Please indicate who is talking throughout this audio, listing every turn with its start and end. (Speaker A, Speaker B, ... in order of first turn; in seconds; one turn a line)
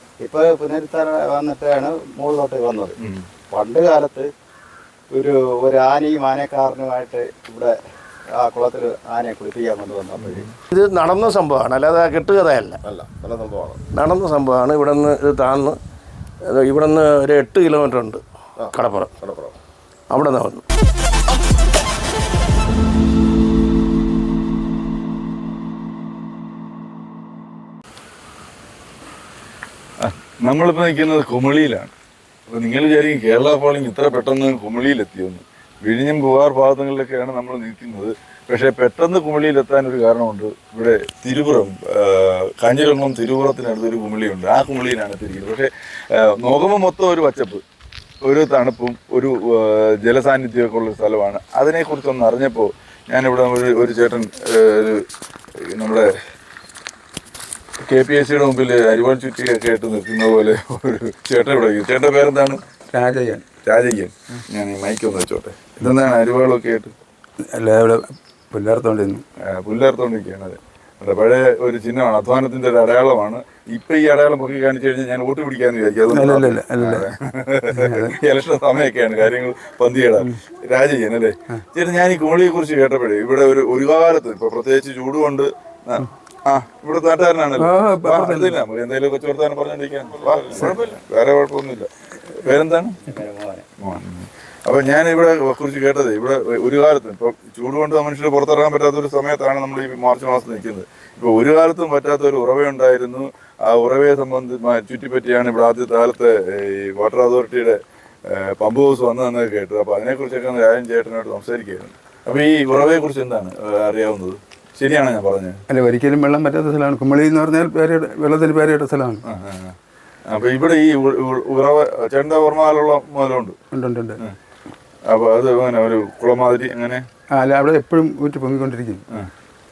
Speaker A: 0.2-3.0
Speaker A: 3.5-4.3
Speaker A: 5.1-7.7
Speaker A: 8.4-10.5
Speaker B: 10.2-10.5
Speaker C: 10.7-12.8
Speaker D: 12.8-13.9
Speaker C: 13.8-15.8
Speaker C: 16.5-19.2
Speaker D: 18.6-19.6
Speaker C: 20.1-20.6
Speaker B: 30.0-31.9
Speaker B: 32.5-47.6
Speaker B: 48.2-55.0
Speaker B: 55.7-56.1
Speaker B: 57.9-62.6
Speaker E: 62.9-63.5
Speaker B: 63.6-66.9
Speaker E: 67.5-69.2
Speaker B: 69.4-93.0
Speaker E: 76.1-77.1
Speaker E: 77.7-78.2
Speaker E: 87.6-88.6
Speaker A: 90.3-90.8
Speaker A: 93.0-93.7
Speaker B: 93.8-115.6
Speaker E: 115.7-119.2
Speaker B: 119.3-119.8
Speaker B: 120.3-123.6
Speaker E: 123.7-124.2
Speaker B: 125.1-127.0
Speaker E: 127.4-129.0